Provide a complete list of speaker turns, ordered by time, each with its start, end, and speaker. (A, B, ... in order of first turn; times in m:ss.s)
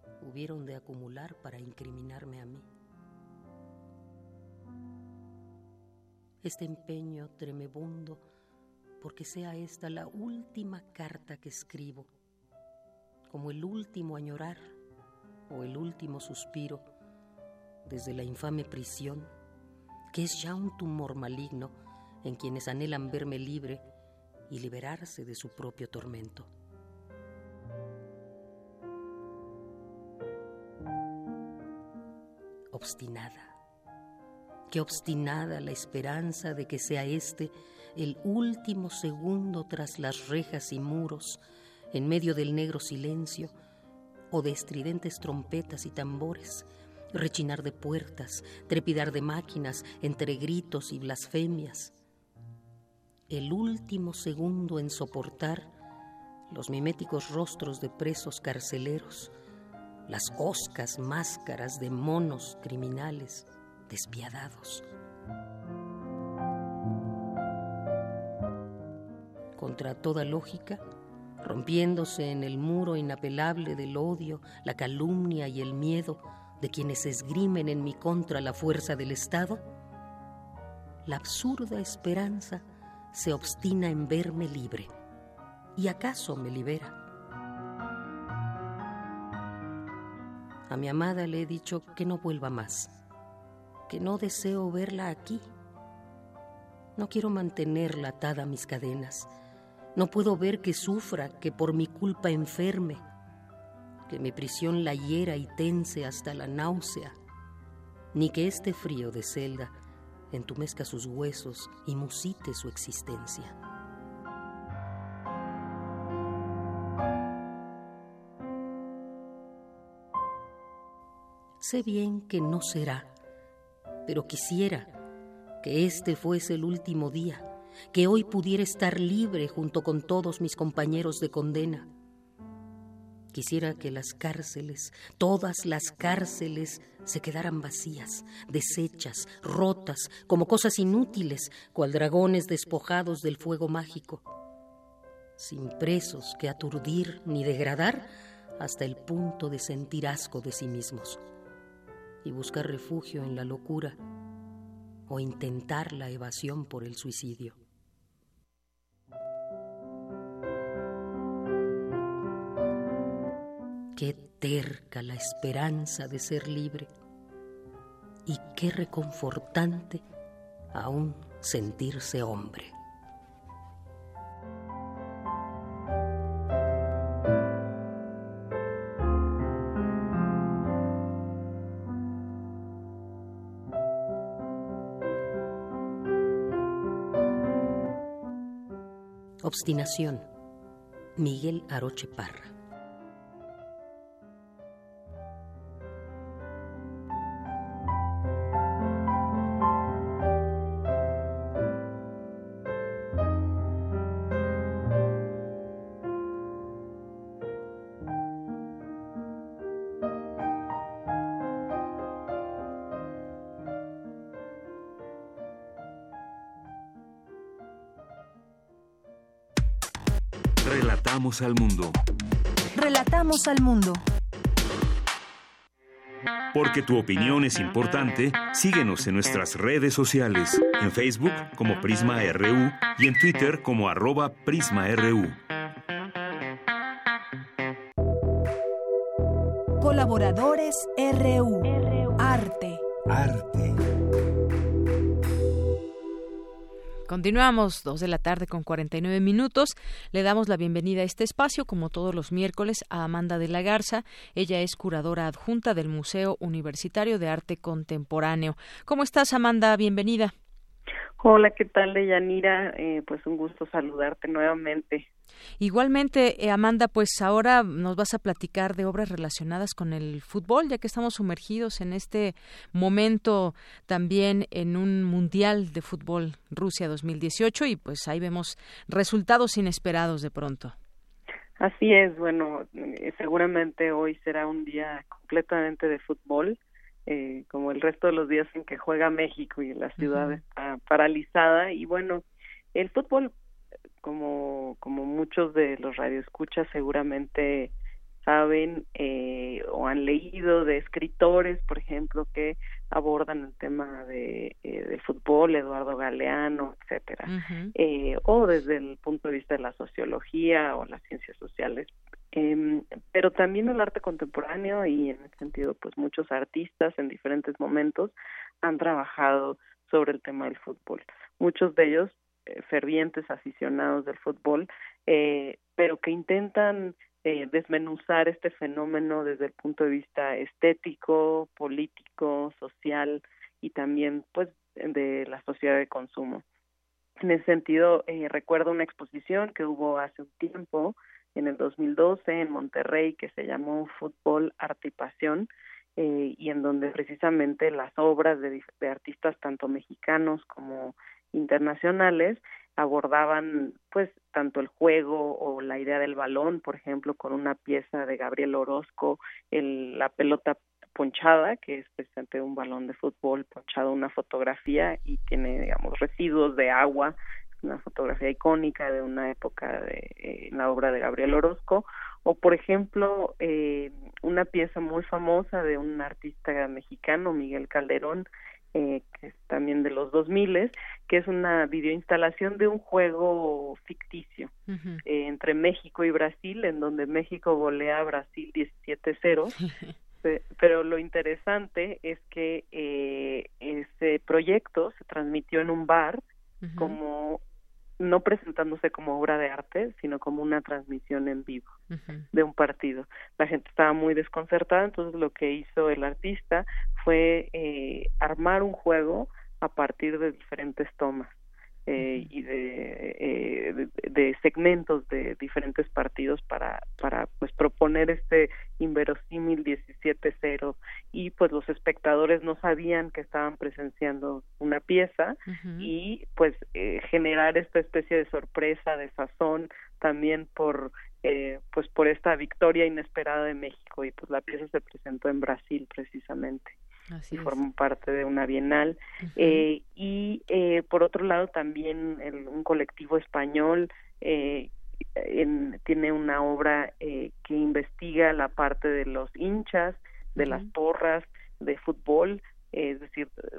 0:00.2-0:02.6 A
0:06.4-0:08.2 A
0:09.0-0:12.1 A
0:13.3-0:14.7 A
0:15.5-0:16.8 A
0:17.8-0:19.3 A
0:20.1-0:23.8 A
0:24.5-0:26.5 A
0:32.7-0:33.5 A
0:34.7-0:41.4 A
0:41.9-0:43.5 A
0:44.3-0:51.9 A
0:53.3-0:55.7 A
0:56.5-0:59.3 A
1:00.1-1:04.8 A
1:09.6-1:10.8 A
1:11.4-1:19.6 A
1:21.0-1:24.9 A
1:25.8-1:27.0 A
1:30.7-1:33.0 A
1:33.9-1:35.4 A
1:37.0-1:39.3 A
1:39.9-1:43.0 A
1:44.1-1:47.1 A
1:48.1-1:49.7 A
1:50.3-1:53.5 A
2:01.6-2:03.1 A
2:04.1-2:04.9 A
2:05.6-2:11.9 A
2:13.3-2:24.2 A
2:25.4-2:31.2 A
2:32.2-2:34.0 A
2:35.1-2:37.6 A
2:43.9-2:46.9 A
2:48.2-2:50.0 A
2:50.7-2:52.7 A
3:09.4-3:10.2 A
3:11.2-3:12.5 A
3:40.6-3:42.0 B
3:42.7-3:44.0 C
3:46.5-3:55.4 B
3:59.8-4:02.8 C
4:03.1-4:03.8 B
4:07.1-4:20.3 D
4:21.2-4:25.1 E
4:25.6-4:40.7 D
4:41.6-4:52.2 E
4:50.0-4:50.4 D
4:52.7-4:53.3 E
4:54.0-4:57.7 E
4:58.2-5:36.4 E
5:07.3-5:07.7 D
5:37.2-6:24.5 E
6:24.7-6:25.0 D
6:25.1-6:29.5 E
6:29.6-6:29.9 D
6:30.2-6:36.2 E
6:36.6-6:37.0 D
6:36.8-6:37.4 E
6:38.0-6:41.8 E
6:41.9-6:42.3 D
6:42.3-7:16.7 E
6:52.0-6:52.3 D
7:05.5-7:05.9 D
7:17.1-7:17.6 D
7:17.3-7:33.3 E
7:19.2-7:19.6 D
7:30.4-7:30.7 D